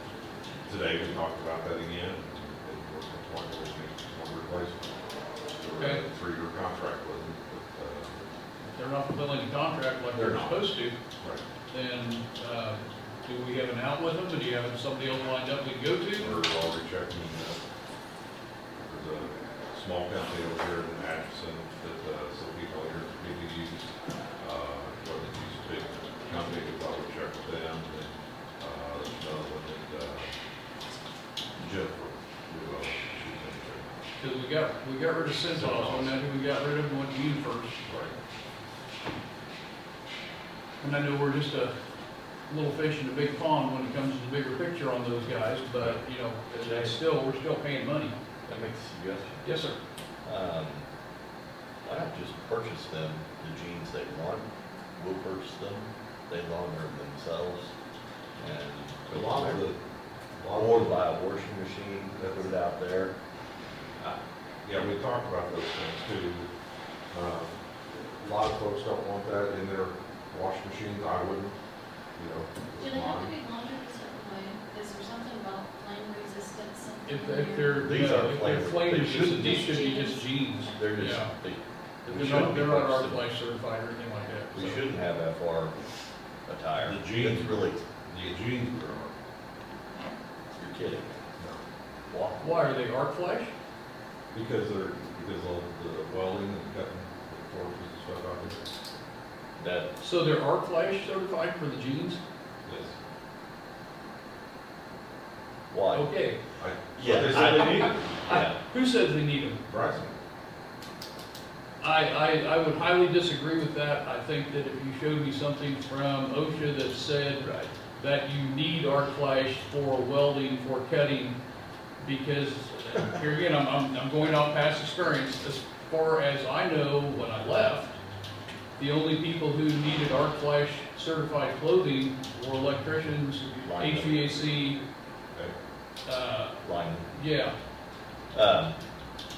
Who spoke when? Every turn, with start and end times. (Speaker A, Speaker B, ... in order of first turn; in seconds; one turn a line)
Speaker A: 0.6-8.3
Speaker B: 5.8-6.0
Speaker B: 8.7-10.9
Speaker A: 10.1-10.7
Speaker B: 11.7-16.3
Speaker A: 16.1-17.6
Speaker A: 18.8-30.3
Speaker A: 31.6-34.1
Speaker B: 34.2-37.8
Speaker A: 35.5-36.1
Speaker A: 37.8-38.1
Speaker B: 40.8-41.7
Speaker B: 42.5-48.1
Speaker C: 46.7-46.9
Speaker C: 48.5-49.5
Speaker B: 49.4-49.8
Speaker C: 50.2-50.9
Speaker C: 51.8-57.7
Speaker C: 58.4-59.7
Speaker A: 59.1-59.8
Speaker A: 60.4-61.0
Speaker C: 60.5-63.1
Speaker A: 64.0-66.5
Speaker A: 67.1-67.6
Speaker A: 68.2-71.5
Speaker A: 72.2-73.3
Speaker D: 72.8-78.2
Speaker B: 77.0-81.3
Speaker C: 77.8-79.6
Speaker D: 79.3-81.0
Speaker C: 80.8-83.2
Speaker B: 82.0-84.8
Speaker C: 84.5-85.7
Speaker C: 86.5-87.8
Speaker A: 86.8-89.1
Speaker C: 90.6-91.1
Speaker C: 92.1-92.6
Speaker B: 92.4-93.5
Speaker A: 94.3-98.7
Speaker C: 99.6-99.9
Speaker B: 100.0-102.2
Speaker A: 102.6-102.9
Speaker C: 105.7-106.1
Speaker B: 105.9-106.4
Speaker A: 106.6-108.1
Speaker C: 107.0-108.6
Speaker B: 107.3-109.6
Speaker A: 109.7-110.1
Speaker B: 111.8-121.3
Speaker C: 117.4-117.7
Speaker B: 122.0-128.0
Speaker B: 128.8-134.8
Speaker C: 133.6-134.5
Speaker B: 136.1-136.6
Speaker C: 136.6-137.1
Speaker B: 137.1-137.5
Speaker C: 138.3-138.8